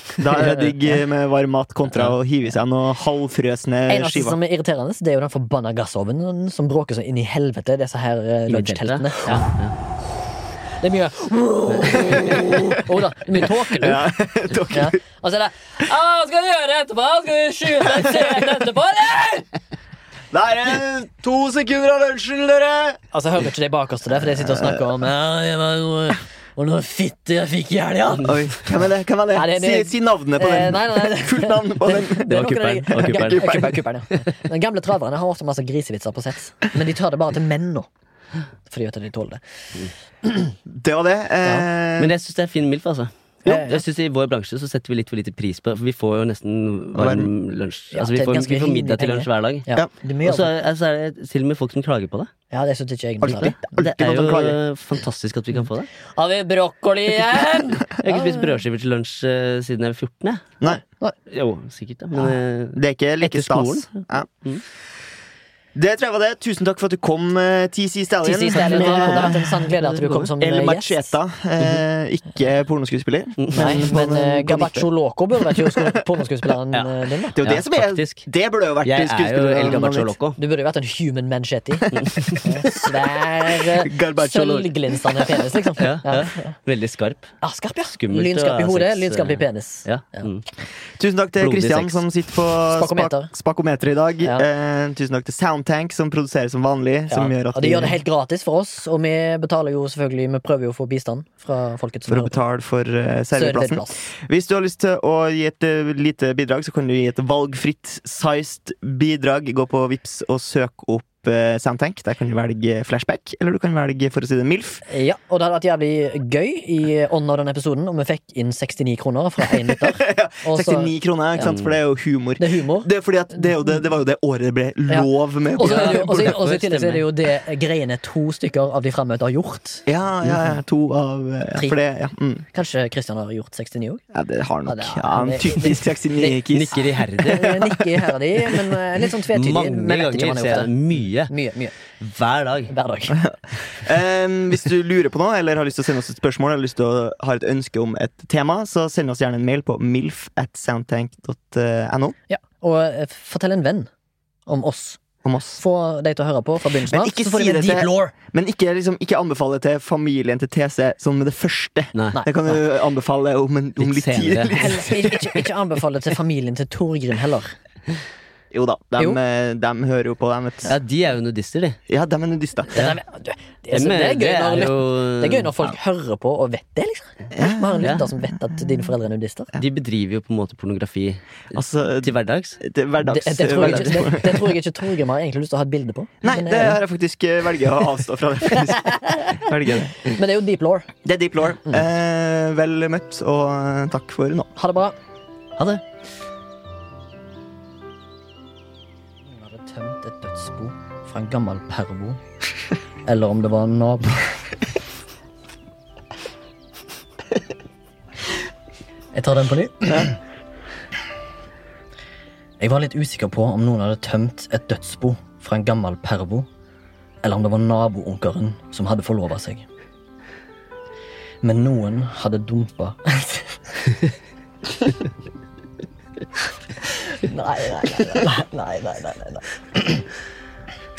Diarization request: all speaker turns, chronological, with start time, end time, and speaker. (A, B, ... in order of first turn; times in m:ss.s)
0:00.2-0:04.4 A
0:00.3-0:01.0 B
0:03.9-0:09.5 B
0:08.5-0:09.7 C
0:10.8-0:14.1 B
0:12.0-0:12.7 A
0:13.6-0:15.0 A
0:14.7-0:19.5 B
0:17.9-0:18.3 A
0:20.3-0:23.0 A
0:23.1-0:28.4 B
0:24.3-0:24.8 A
0:28.1-0:28.4 C
0:28.2-0:32.3 A
0:29.3-0:37.9 B
0:32.3-0:33.7 C
0:32.9-0:33.8 A
0:38.7-0:39.4 B
0:40.2-0:40.6 B
0:40.7-0:42.1 A
0:42.0-0:49.7 C
0:43.4-0:43.8 B
0:46.9-0:47.3 A
0:47.9-0:50.5 B
0:50.2-0:52.3 C
0:52.5-0:53.6 B
0:53.2-0:54.6 A
0:53.8-0:55.9 C
0:56.2-0:58.6 B
0:58.0-1:00.4 C
1:00.6-1:01.2 B
1:01.3-1:04.6 C
1:02.2-1:04.2 A
1:05.7-1:09.5 A
1:08.2-1:11.1 B
1:08.5-1:10.3 C
1:10.4-1:14.9 A
1:13.4-1:13.9 C
1:13.5-1:17.4 B
1:15.4-1:15.9 A
1:16.7-1:18.2 C
1:17.3-1:20.2 A
1:18.8-1:20.4 C
1:20.4-1:26.6 B
1:22.0-1:22.4 C
1:23.6-1:24.7 A
1:25.8-1:27.3 C
1:27.4-1:30.3 B
1:27.9-1:30.4 C
1:31.0-1:38.0 A
1:31.4-1:32.0 C
1:32.7-1:33.3 B
1:37.1-1:42.4 B
1:42.1-1:54.8 A
1:43.3-1:44.1 B
1:54.9-2:00.9 B
1:59.6-2:06.4 A
2:01.4-2:01.7 C
2:02.4-2:02.9 B
2:04.9-2:09.8 B
2:05.6-2:07.1 C
2:09.8-2:12.4 A
2:12.5-2:14.0 B
2:14.1-2:17.8 A
2:14.6-2:16.4 B
2:16.5-2:17.7 C
2:17.2-2:21.7 B
2:19.3-2:21.3 C
2:22.0-2:22.7 C
2:22.7-2:23.2 B
2:23.2-2:32.2 A
2:32.3-2:33.9 B
2:34.4-2:35.0 B
2:35.2-2:35.6 A
2:35.6-2:38.1 B
2:36.8-2:45.4 A
2:42.1-2:42.6 B
2:43.8-2:44.8 C
2:44.5-2:47.6 B
2:48.5-2:50.8 A
2:50.7-2:51.8 C
2:51.9-2:52.8 A
2:52.7-2:59.5 B
2:53.7-2:55.5 C
2:57.3-2:57.9 A
2:59.5-3:02.6 C
3:01.5-3:04.5 A
3:03.0-3:06.8 B
3:03.6-3:04.0 C
3:06.2-3:09.9 A
3:08.5-3:10.9 B
3:11.0-3:14.5 A
3:14.6-3:15.0 B
3:19.3-3:22.2 B
3:23.0-3:24.4 B
3:29.1-3:30.2 B
3:32.6-3:36.5 B
3:37.2-3:39.6 B
3:41.4-3:43.6 B
3:46.9-3:50.0 B